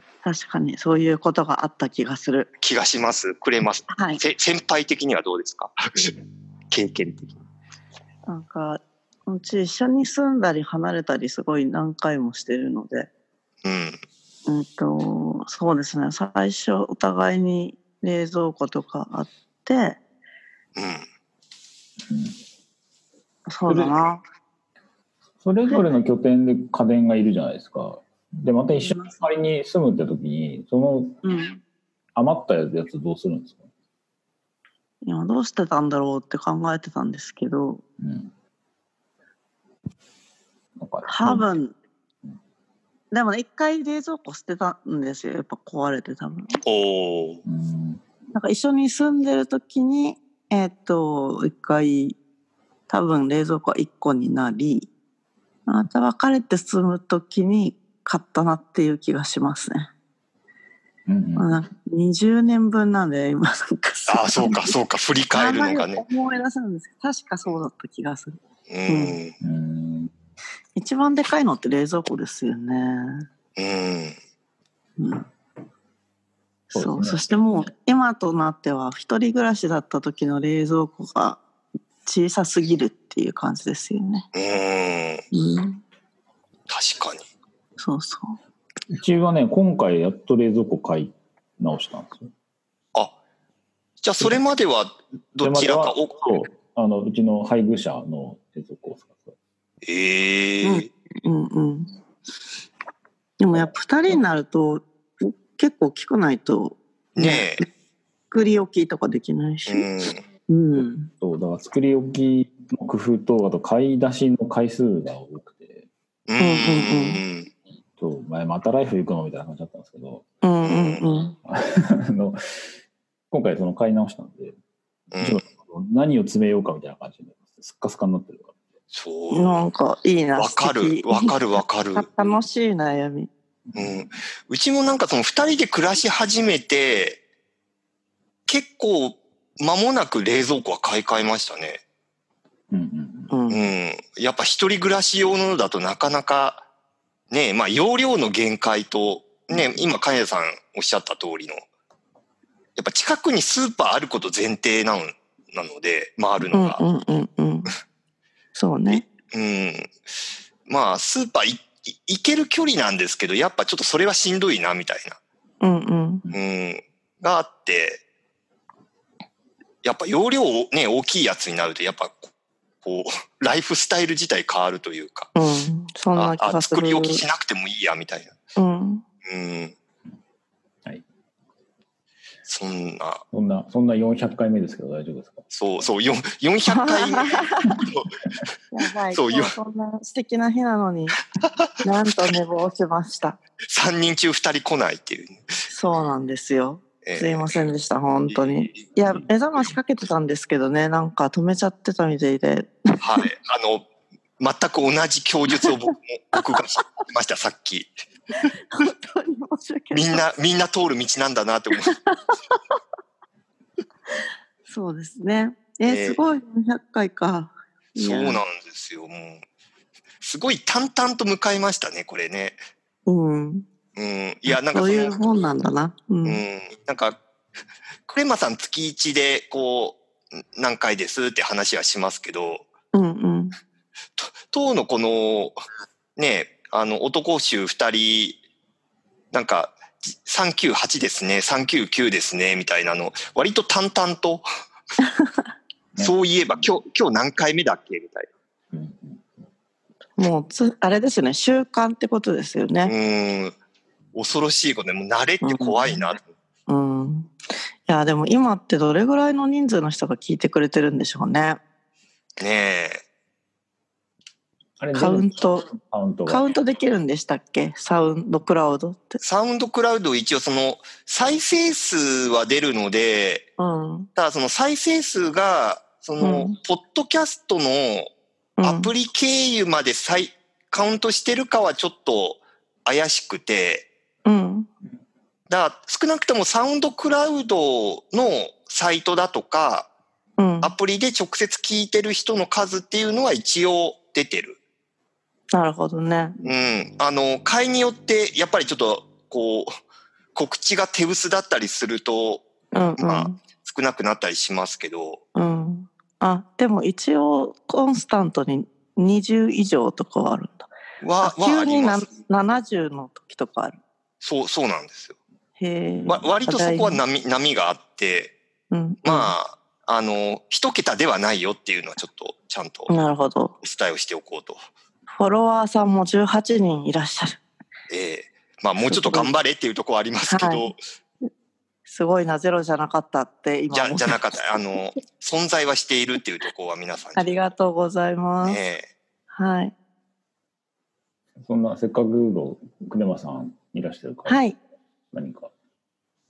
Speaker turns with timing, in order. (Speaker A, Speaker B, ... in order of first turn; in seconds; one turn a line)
Speaker A: 0.2-2.5
Speaker B: 2.6-6.1
Speaker A: 3.9-4.2
Speaker B: 6.7-7.4
Speaker A: 8.3-13.1
Speaker B: 13.6-14.0
Speaker A: 14.5-20.0
Speaker B: 20.8-21.1
Speaker C: 22.1-22.4
Speaker A: 23.5-24.2
Speaker C: 23.7-23.9
Speaker C: 25.4-31.2
Speaker A: 25.7-25.9
Speaker A: 28.8-29.1
Speaker A: 31.2-31.6
Speaker C: 32.1-33.6
Speaker A: 35.0-37.8
Speaker C: 38.0-38.3
Speaker C: 40.8-41.5
Speaker A: 41.0-41.7
Speaker A: 43.1-46.5
Speaker B: 46.6-47.4
Speaker C: 47.4-48.0
Speaker A: 48.3-52.2
Speaker A: 52.9-54.9
Speaker A: 55.7-59.9
Speaker C: 61.0-61.5
Speaker A: 61.4-64.7
Speaker B: 64.1-66.0
Speaker A: 65.3-69.2
Speaker B: 68.7-69.3
Speaker C: 69.4-70.1
Speaker A: 70.8-73.2
Speaker B: 73.6-74.2
Speaker A: 75.0-75.3
Speaker A: 76.7-81.4
Speaker C: 76.7-77.2
Speaker A: 82.0-84.3
Speaker B: 84.3-85.2
Speaker A: 85.3-85.8
Speaker B: 86.7-87.2
Speaker A: 87.8-88.4
Speaker C: 88.9-92.3
Speaker B: 94.0-96.4
Speaker C: 95.4-99.3
Speaker B: 99.8-100.9
Speaker A: 100.6-101.9
Speaker A: 103.4-107.7
Speaker C: 103.5-104.2
Speaker B: 107.2-107.6
Speaker A: 108.3-109.8
Speaker B: 109.7-110.2
Speaker A: 110.5-111.1
Speaker C: 111.2-115.8
Speaker B: 116.3-117.5
Speaker A: 116.4-117.2
Speaker C: 118.0-120.2
Speaker A: 120.4-121.3
Speaker B: 120.6-121.0
Speaker C: 121.4-122.4
Speaker C: 123.3-124.5
Speaker B: 125.1-125.4
Speaker C: 125.2-128.5
Speaker B: 128.9-129.7
Speaker A: 129.3-133.3
Speaker B: 130.3-132.1
Speaker C: 133.7-134.1
Speaker B: 133.8-137.2
Speaker B: 138.5-141.8
Speaker C: 142.7-143.3
Speaker A: 143.3-143.7
Speaker B: 143.5-146.6
Speaker B: 147.3-151.6
Speaker C: 149.5-149.8
Speaker B: 152.8-156.8
Speaker A: 156.5-157.7
Speaker A: 158.5-159.0
Speaker B: 158.9-159.9
Speaker B: 160.7-165.2
Speaker A: 165.6-166.2
Speaker B: 166.3-168.0
Speaker B: 169.8-172.3
Speaker B: 172.8-175.3
Speaker A: 175.3-177.2
Speaker B: 176.2-178.3
Speaker A: 178.6-179.0
Speaker B: 179.2-179.7
Speaker B: 182.4-183.2
Speaker C: 183.3-185.4
Speaker B: 185.5-188.5
Speaker A: 186.7-187.7
Speaker A: 188.7-191.2
Speaker B: 189.1-189.5
Speaker B: 191.4-191.7
Speaker A: 191.8-193.4
Speaker B: 193.7-195.4
Speaker A: 195.7-203.2
Speaker B: 197.0-197.6
Speaker B: 198.3-198.9
Speaker B: 203.0-203.8
Speaker B: 204.4-207.9
Speaker A: 208.7-210.2
Speaker B: 209.9-212.0
Speaker A: 211.8-212.6
Speaker A: 214.7-218.4
Speaker B: 215.8-216.2
Speaker B: 218.0-219.4
Speaker B: 220.2-222.6
Speaker A: 223.1-223.7
Speaker B: 223.9-225.4
Speaker A: 224.5-226.4
Speaker B: 226.2-227.2
Speaker B: 228.1-232.7
Speaker A: 232.9-233.5
Speaker B: 234.2-235.6
Speaker B: 236.2-238.4
Speaker B: 239.3-244.4
Speaker C: 245.9-246.7
Speaker B: 246.0-248.3
Speaker C: 248.7-249.3
Speaker A: 250.2-252.9
Speaker B: 252.8-253.5
Speaker B: 254.1-256.3
Speaker A: 255.4-256.0
Speaker A: 256.7-257.3
Speaker A: 257.9-261.6
Speaker B: 262.4-263.0
Speaker C: 264.8-266.4
Speaker A: 264.9-265.7
Speaker A: 266.3-269.2
Speaker B: 269.2-273.5
Speaker A: 273.6-274.1
Speaker B: 274.1-278.1
Speaker A: 276.2-276.6
Speaker A: 278.6-278.9
Speaker B: 278.6-283.9
Speaker A: 284.2-284.7
Speaker B: 285.5-289.9
Speaker A: 290.4-290.7
Speaker B: 290.6-294.6
Speaker A: 295.5-296.4
Speaker B: 296.4-299.8
Speaker B: 300.3-302.4
Speaker A: 302.7-303.4
Speaker B: 303.0-305.2
Speaker A: 305.3-310.7
Speaker B: 311.0-312.1
Speaker A: 311.2-313.8
Speaker B: 314.2-315.1
Speaker A: 315.6-317.0
Speaker C: 315.9-316.3
Speaker B: 316.1-318.3
Speaker A: 318.7-319.3
Speaker B: 319.0-322.9
Speaker A: 322.9-323.5
Speaker B: 323.6-324.6
Speaker A: 325.1-327.4
Speaker B: 327.9-330.8
Speaker A: 328.9-329.3
Speaker A: 330.3-330.7
Speaker A: 331.9-334.1
Speaker B: 333.7-337.5
Speaker A: 337.1-338.6
Speaker B: 338.4-338.9
Speaker A: 339.3-339.7
Speaker C: 341.4-344.4
Speaker A: 344.2-344.6
Speaker C: 345.1-345.5